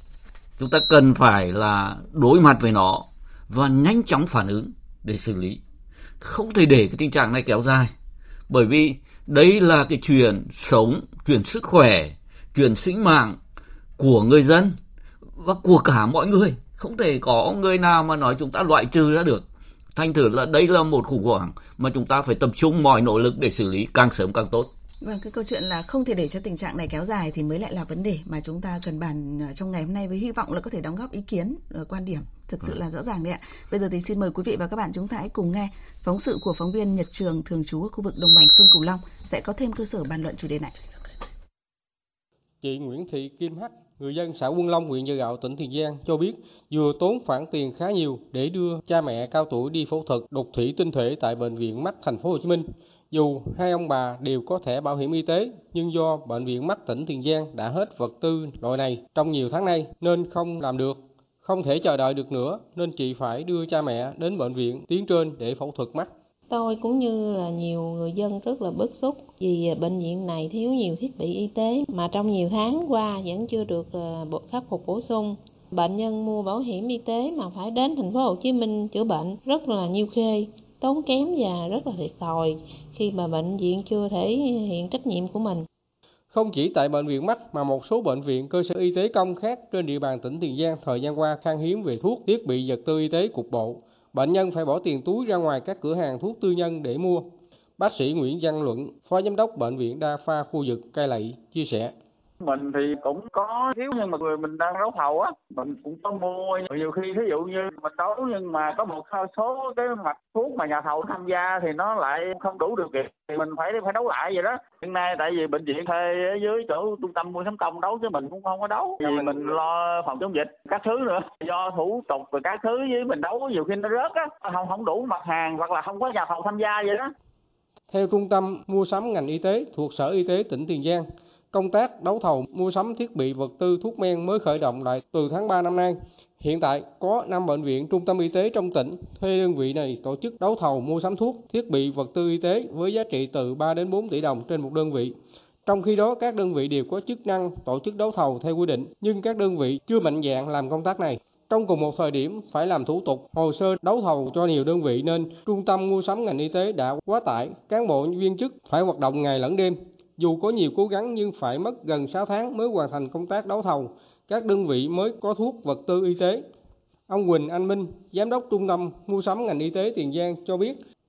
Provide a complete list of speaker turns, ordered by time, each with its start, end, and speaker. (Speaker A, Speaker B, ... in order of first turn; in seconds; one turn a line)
Speaker A: 0.6-5.6
Speaker A: 6.2-7.9
Speaker A: 8.5-13.4
Speaker A: 14.0-14.8
Speaker A: 15.4-24.7
Speaker B: 25.0-40.8
Speaker C: 42.6-66.1
Speaker D: 66.5-85.7
Speaker C: 86.3-101.9
Speaker E: 102.4-127.1
Speaker C: 119.0-119.4
Speaker C: 127.9-145.2
Speaker C: 145.7-166.5
Speaker C: 167.1-170.8